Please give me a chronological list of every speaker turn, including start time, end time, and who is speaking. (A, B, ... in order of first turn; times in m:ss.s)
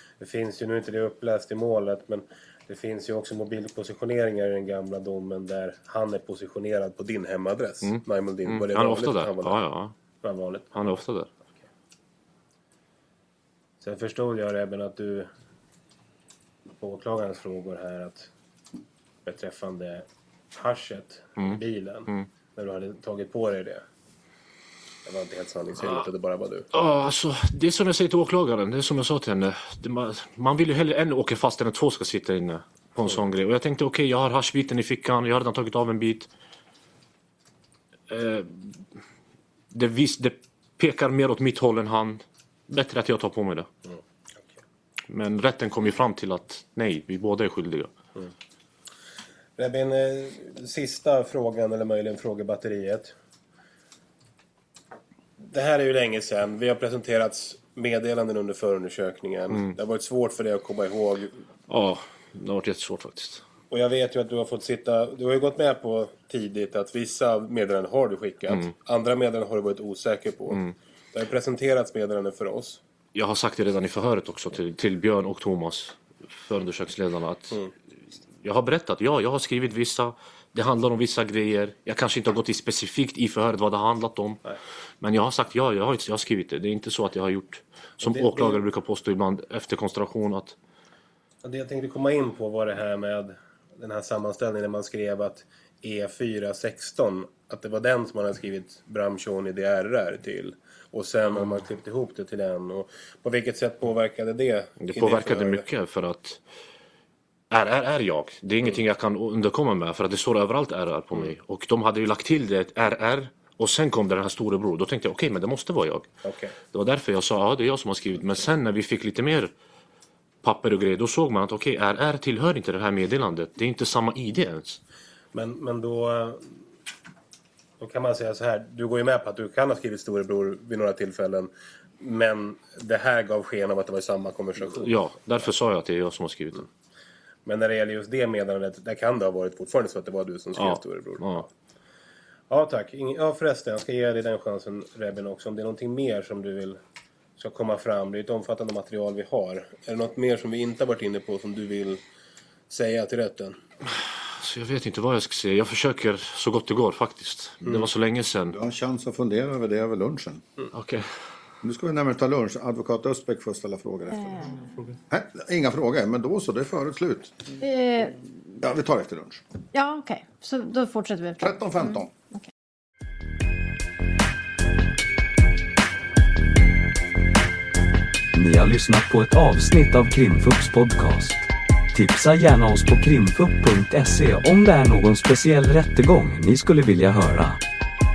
0:00.2-0:09.6 A
0:07.8-0:09.9 B
0:10.2-0:10.8 A
0:10.7-0:11.3 B
0:13.8-0:15.3 A
0:16.8-0:18.3 A
0:19.2-0:23.8 A
0:21.4-0:22.3 B
0:25.0-0:26.6 A
0:26.7-0:36.3 B
0:38.1-0:38.8 B
0:39.7-0:43.7 B
0:45.1-0:47.9 B
0:49.6-0:53.2 A
0:55.4-1:01.3 A
1:01.7-1:03.4 B
1:03.7-1:12.8 A
1:13.1-1:17.6 B
1:18.4-1:24.4 B
1:25.0-1:30.6 B
1:28.0-1:28.6 A
1:31.4-1:45.6 A
1:44.8-1:46.4 B
1:47.5-1:56.1 B
1:56.2-1:56.6 A
1:56.7-1:59.5 B
2:00.4-2:04.8 B
2:05.3-2:06.5 A
2:07.8-2:15.0 A
2:14.8-2:16.7 B
2:17.4-2:21.5 A
2:20.6-2:21.5 B
2:22.5-2:26.8 A
2:27.4-2:32.0 A
2:32.7-2:33.6 A
2:34.2-2:38.6 B
2:38.5-2:40.4 C
2:40.7-2:41.1 B
2:41.6-2:47.4 C
2:44.3-2:44.6 D
2:47.6-2:48.2 D
2:48.6-2:49.4 C
2:49.7-2:52.0 D
2:51.4-2:52.1 C
2:58.3-3:07.6 E